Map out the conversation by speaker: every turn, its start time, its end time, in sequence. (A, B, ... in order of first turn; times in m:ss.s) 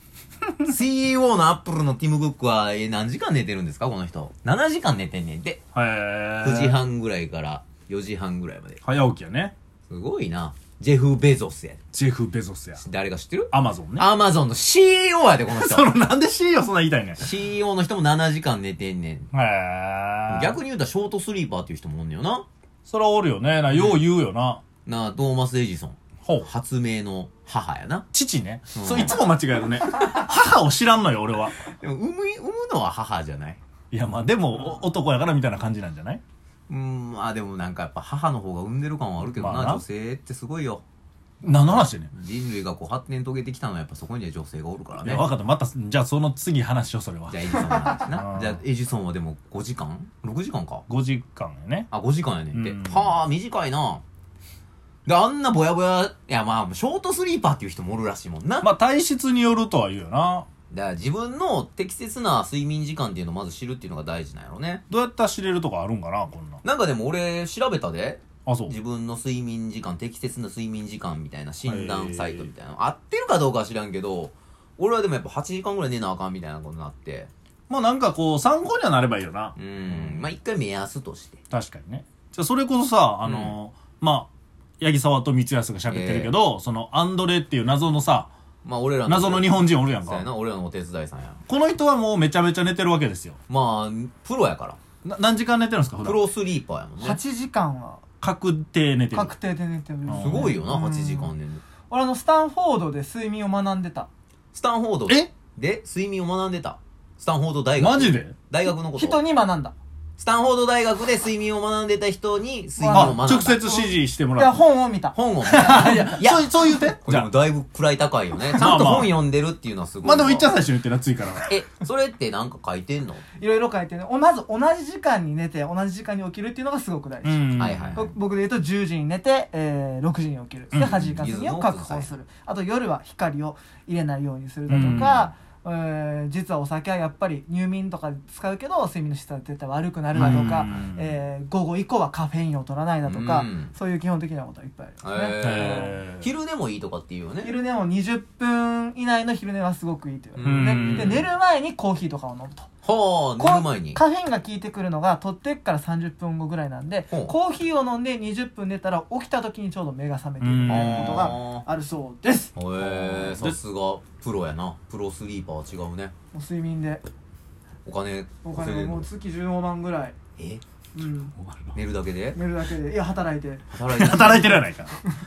0:00.6-0:05.6 A
0:05.7-0:06.8 B
0:06.4-0:08.8 A
0:08.8-0:09.5 B
0:09.9-0:11.8 A
0:11.9-0:12.8 B
0:12.8-0:15.9 A
0:13.5-0:14.1 B
0:15.5-0:17.2 B
0:17.2-0:19.3 A
0:19.3-0:20.6 B
0:20.3-0:22.4 A
0:22.8-0:24.6 B
0:23.7-0:24.0 A
0:24.8-0:28.1 A
0:28.1-0:31.5 B
0:28.7-0:29.2 A
0:31.6-0:33.6 A
0:33.9-0:36.2 B
0:36.7-0:40.8 A
0:39.2-0:39.8 B
0:41.4-0:42.1 B
0:41.7-0:45.3 A
0:45.0-0:48.6 B
0:47.3-0:50.8 A
0:50.9-0:51.9 B
0:51.9-0:54.0 A
0:52.5-0:53.2 B
0:55.0-0:58.7 A
0:58.6-1:00.5 B
1:00.7-1:04.8 A
1:04.9-1:06.6 B
1:06.6-1:17.3 A
1:08.4-1:08.7 B
1:11.6-1:12.5 B
1:17.7-1:20.2 B
1:19.6-1:21.4 A
1:21.5-1:24.3 B
1:23.2-1:23.5 A
1:24.8-1:28.3 B
1:25.9-1:26.3 A
1:28.6-1:31.4 A
1:29.0-1:30.3 B
1:31.5-1:33.4 B
1:33.5-1:34.8 A
1:35.0-1:36.2 B
1:36.0-1:37.2 A
1:37.0-1:38.0 C
1:38.2-1:39.3 B
1:39.1-1:41.3 C
1:40.1-1:40.6 B
1:40.1-1:41.6 A
1:41.9-1:44.1 C
1:44.5-1:49.2 A
1:47.8-1:48.3 B
1:48.9-1:49.7 C
1:50.2-1:53.6 A
1:52.8-1:55.1 C
1:52.9-1:54.6 B
1:55.1-2:00.5 A
1:55.5-1:57.3 B
1:58.5-1:59.2 B
2:00.0-2:01.5 B
2:01.5-2:03.2 A
2:03.4-2:25.9 C
2:07.2-2:08.0 B
2:07.6-2:08.1 A
2:10.7-2:11.1 B
2:11.2-2:12.1 A
2:14.7-2:15.3 B
2:14.7-2:15.1 A
2:20.1-2:21.1 B
2:20.2-2:20.8 A
2:23.0-2:23.7 A
2:25.0-2:27.5 A
2:25.4-2:26.3 B
2:27.4-2:32.7 C
2:30.4-2:31.2 A
2:30.4-2:31.2 B
2:32.8-2:34.0 A
2:33.4-2:42.5 C
2:40.4-2:41.4 B
2:40.7-2:41.6 A
2:42.5-2:46.1 A
2:42.8-2:43.6 B
2:46.3-2:47.0 C
2:47.8-2:49.1 A
2:48.4-2:50.1 C
2:50.4-2:50.6 A
2:50.9-2:51.3 C
2:51.4-2:51.8 B
2:51.7-2:52.4 A
2:52.3-2:54.7 C
2:53.7-2:54.5 A
2:53.9-2:54.9 B